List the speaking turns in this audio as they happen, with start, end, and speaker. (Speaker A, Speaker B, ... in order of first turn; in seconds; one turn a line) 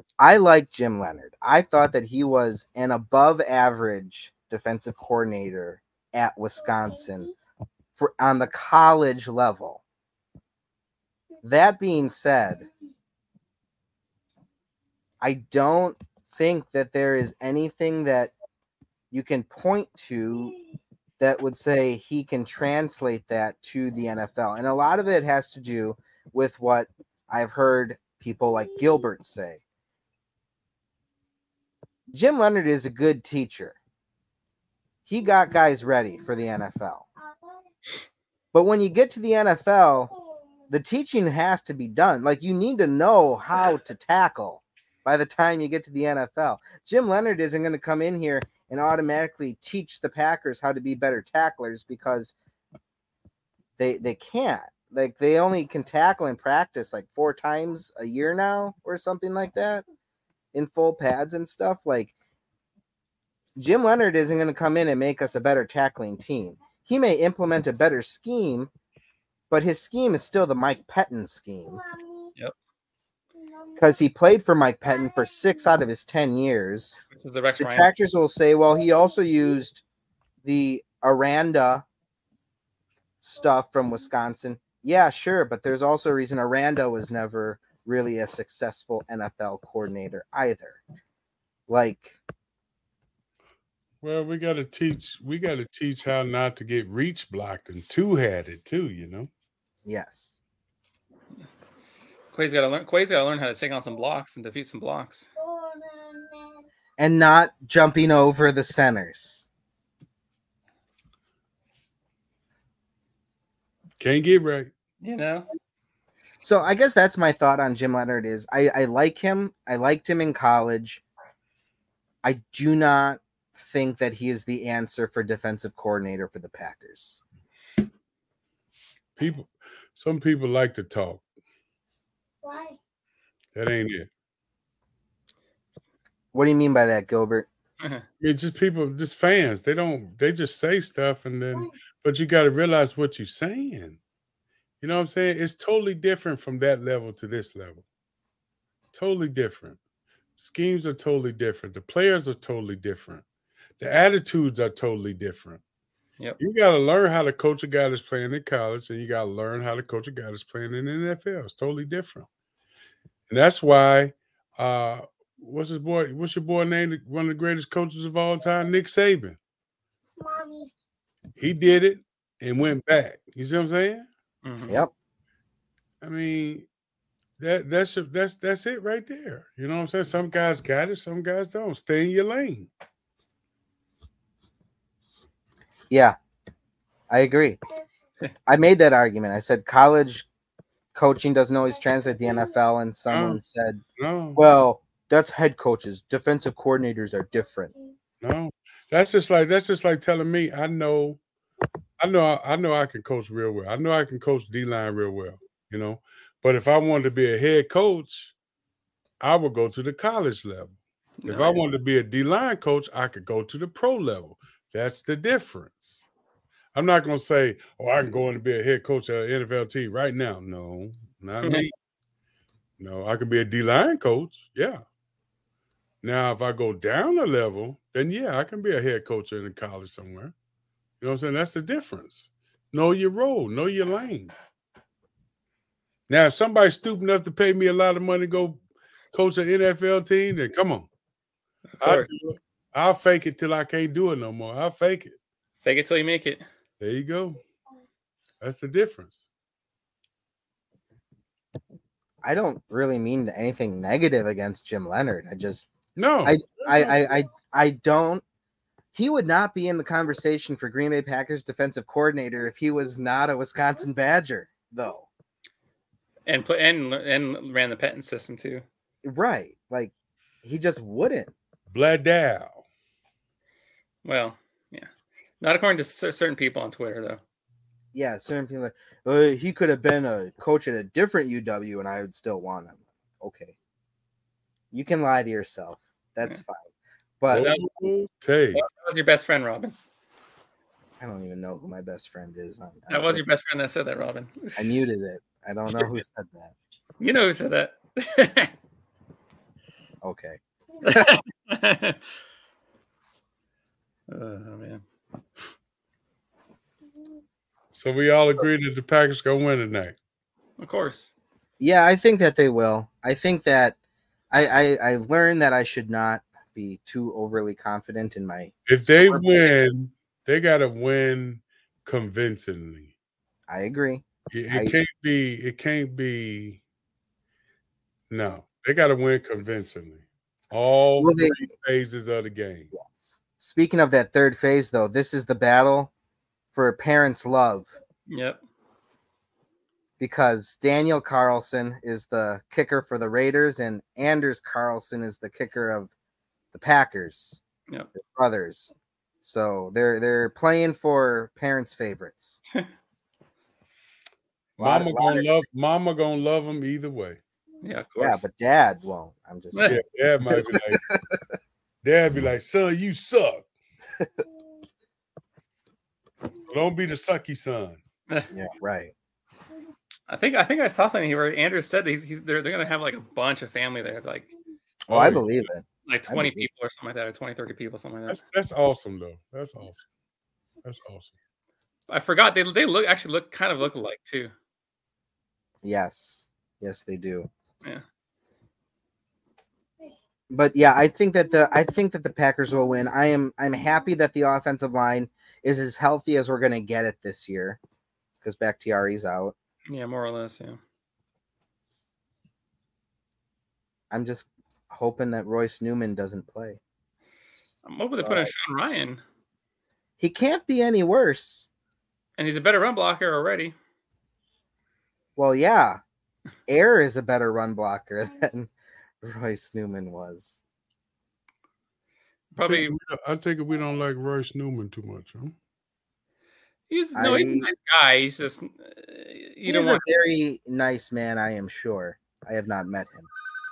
Speaker A: 0.2-7.3
Speaker B: 6.6-7.3
Speaker A: 8.0-9.8
Speaker A: 11.4-12.7
Speaker B: 12.6-12.9
Speaker A: 15.2-18.3
Speaker A: 19.1-20.5
Speaker B: 20.3-20.6
Speaker A: 21.2-29.6
Speaker B: 28.5-28.8
Speaker A: 32.1-33.8
Speaker A: 35.1-37.0
Speaker B: 35.3-36.3
Speaker B: 37.2-37.7
Speaker A: 38.5-40.1
Speaker B: 40.1-40.5
Speaker A: 40.7-52.3
Speaker A: 53.8-59.8
Speaker A: 60.5-62.1
Speaker A: 63.5-68.7
Speaker A: 69.5-71.8
Speaker B: 71.7-72.3
Speaker B: 73.3-74.0
Speaker A: 73.8-77.0
Speaker B: 74.9-75.7
Speaker C: 77.1-77.9
Speaker A: 77.6-79.8
Speaker B: 78.7-79.6
Speaker A: 80.4-81.8
Speaker A: 83.2-90.8
Speaker A: 91.7-92.2
Speaker D: 94.0-99.3
Speaker A: 99.8-100.3
Speaker C: 102.3-105.3
Speaker B: 105.3-106.6
Speaker A: 107.0-109.5
Speaker D: 114.0-114.7
Speaker C: 115.0-115.5
Speaker A: 116.4-121.0
Speaker A: 122.2-127.2
Speaker D: 129.2-131.2
Speaker B: 132.4-132.8
Speaker D: 133.5-134.1
Speaker A: 136.3-137.5
Speaker D: 138.2-144.0
Speaker D: 144.8-147.8
Speaker D: 148.9-149.8
Speaker D: 150.4-153.2
Speaker D: 153.8-155.6
Speaker D: 156.4-162.3
Speaker D: 163.3-169.4
Speaker B: 170.2-170.7
Speaker D: 171.4-174.1
Speaker C: 174.4-174.8
Speaker D: 176.0-176.7
Speaker D: 177.4-182.7
Speaker A: 185.9-186.2
Speaker A: 187.1-187.6
Speaker A: 188.5-190.2
Speaker A: 190.9-193.8
Speaker B: 191.8-192.5
Speaker D: 193.1-193.4
Speaker D: 194.0-194.4
Speaker A: 194.3-197.7
Speaker D: 198.2-201.2
Speaker D: 202.0-208.3
Speaker D: 209.2-216.0
Speaker C: 211.2-211.6
Speaker D: 216.7-221.7
Speaker D: 222.8-224.8
Speaker D: 226.0-230.3
Speaker D: 231.0-234.3
Speaker D: 236.1-238.6
Speaker D: 239.1-240.9
Speaker C: 241.7-242.1
Speaker D: 241.8-245.2
Speaker C: 245.6-246.4
Speaker D: 246.8-247.4
Speaker D: 248.4-249.3
Speaker A: 252.2-255.7
Speaker D: 255.9-257.1
Speaker A: 256.2-258.2
Speaker A: 258.9-265.1
Speaker C: 266.3-268.6
Speaker A: 269.0-271.3
Speaker D: 271.7-272.6
Speaker C: 274.0-274.9
Speaker C: 275.4-277.2
Speaker A: 277.9-283.5
Speaker A: 284.7-286.7
Speaker A: 287.2-287.6
Speaker D: 287.3-288.6
Speaker C: 287.3-287.6
Speaker C: 288.5-289.7
Speaker A: 291.0-293.2
Speaker C: 292.9-294.8
Speaker A: 294.6-296.5
Speaker C: 295.7-296.0
Speaker C: 297.0-298.5
Speaker A: 300.0-301.1
Speaker C: 300.8-302.0
Speaker C: 304.1-304.8
Speaker D: 307.8-309.9
Speaker C: 310.6-311.1
Speaker A: 311.6-313.8
Speaker A: 314.3-319.6
Speaker D: 318.7-322.9
Speaker A: 323.5-324.8
Speaker D: 324.3-326.6
Speaker D: 328.1-332.7
Speaker A: 331.0-331.5
Speaker A: 332.7-335.9
Speaker A: 336.5-337.7
Speaker C: 338.1-338.4
Speaker A: 340.0-345.9
Speaker A: 346.5-347.4
Speaker A: 347.9-352.4
Speaker D: 354.6-357.2
Speaker A: 354.6-355.4
Speaker C: 357.6-358.2
Speaker A: 358.0-359.8
Speaker C: 359.5-359.8
Speaker D: 359.6-360.9
Speaker A: 360.3-361.2
Speaker D: 361.8-363.5
Speaker D: 366.5-367.8
Speaker A: 368.3-368.9
Speaker C: 370.1-374.3
Speaker A: 374.9-376.5
Speaker D: 374.9-375.3
Speaker C: 375.9-378.2
Speaker D: 378.1-379.9
Speaker D: 380.6-381.1
Speaker C: 381.9-384.3
Speaker A: 385.6-387.3
Speaker A: 390.3-397.6
Speaker A: 398.2-399.3
Speaker C: 399.7-400.6
Speaker A: 403.9-406.6
Speaker C: 407.6-409.0
Speaker A: 408.0-408.3
Speaker A: 410.0-411.5
Speaker C: 412.2-413.5
Speaker A: 415.2-415.8
Speaker A: 416.5-418.5
Speaker A: 419.0-420.4
Speaker C: 422.3-422.7
Speaker D: 422.4-425.3
Speaker C: 426.7-429.8
Speaker A: 426.9-427.5
Speaker A: 429.4-433.1